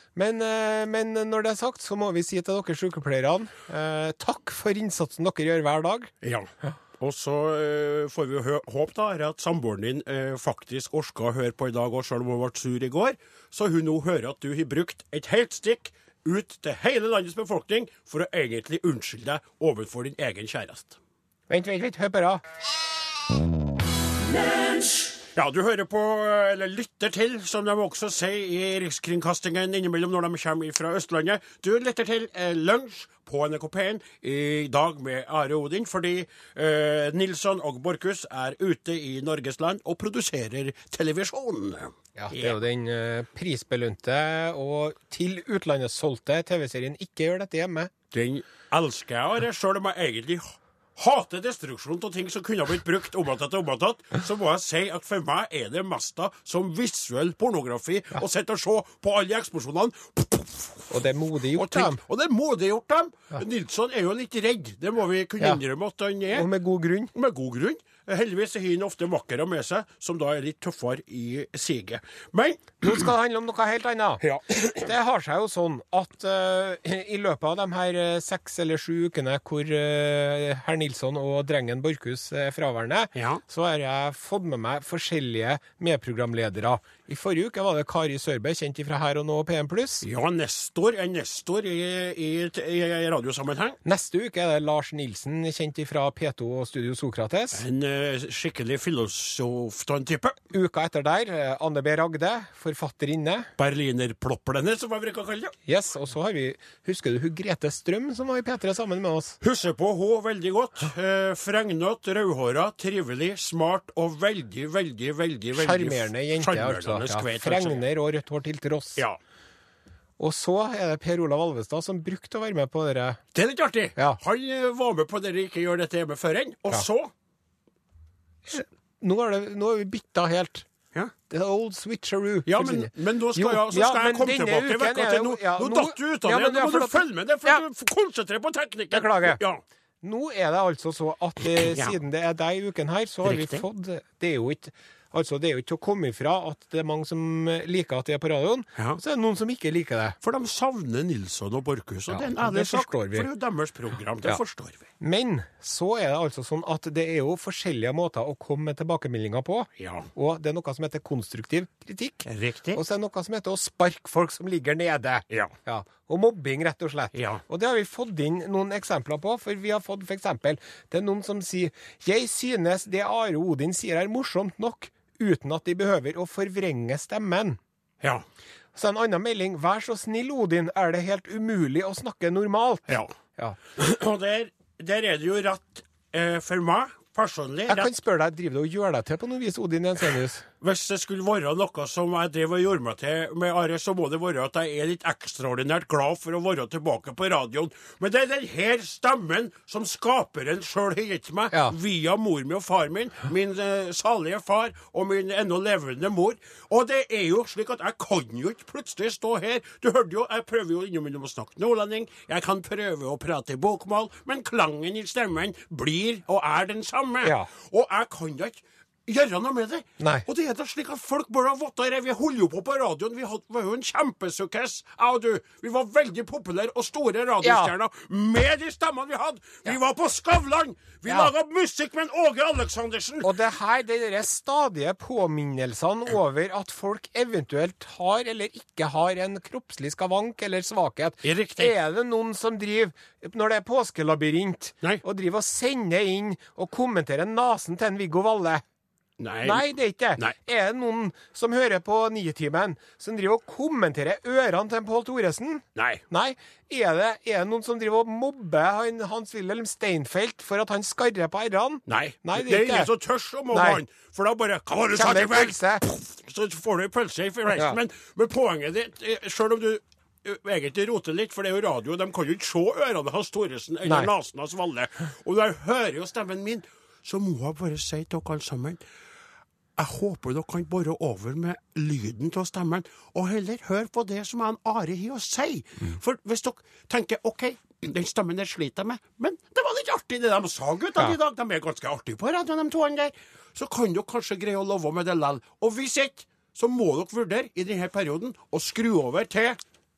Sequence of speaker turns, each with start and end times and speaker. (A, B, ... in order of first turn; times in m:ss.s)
0:00.2-0:06.1 A
0:06.2-0:21.0 B
0:21.5-0:22.4 A
0:25.3-0:42.6 B
0:42.2-0:47.9 A
0:48.1-1:01.0 B
1:00.9-1:02.0 A
1:01.5-1:06.5 B
1:06.3-1:07.1 A
1:07.1-1:13.0 B
1:12.8-1:30.0 A
1:14.2-1:14.9 B
1:23.2-1:23.4 B
1:30.0-1:33.8 B
1:33.8-1:37.6 A
1:37.5-1:40.4 B
1:40.5-1:43.5 A
1:43.6-1:45.5 B
1:45.7-1:49.4 A
1:49.4-1:57.8 B
1:55.6-1:59.0 A
2:00.2-2:03.2 A
2:03.3-2:07.1 B
2:08.5-2:10.7 A
2:11.3-2:17.6 A
2:12.5-2:19.6 B
2:18.9-2:19.4 A
2:20.0-2:30.2 A
2:21.5-2:22.0 B
2:23.2-2:23.6 B
2:30.2-2:34.9 B
2:32.1-2:33.3 A
2:35.0-2:57.6 A
2:39.8-2:40.1 B
2:42.2-2:42.8 B
2:47.1-2:47.4 B
2:58.8-3:03.6 A
3:02.9-3:03.1 B
3:03.8-3:07.9 B
3:07.7-3:10.4 A
3:10.6-3:53.4 B
3:37.2-3:37.5 A
3:40.0-3:40.3 A
3:47.4-3:47.7 A
3:53.2-4:08.6 A
4:01.2-4:01.7 B
4:09.2-4:09.6 B
4:09.4-4:22.9 A
4:15.8-4:16.0 B
4:21.9-4:38.8 B
4:23.5-4:23.8 A
4:24.9-4:25.8 A
4:27.5-4:27.8 A
4:33.8-4:34.1 A
4:39.8-4:59.6 B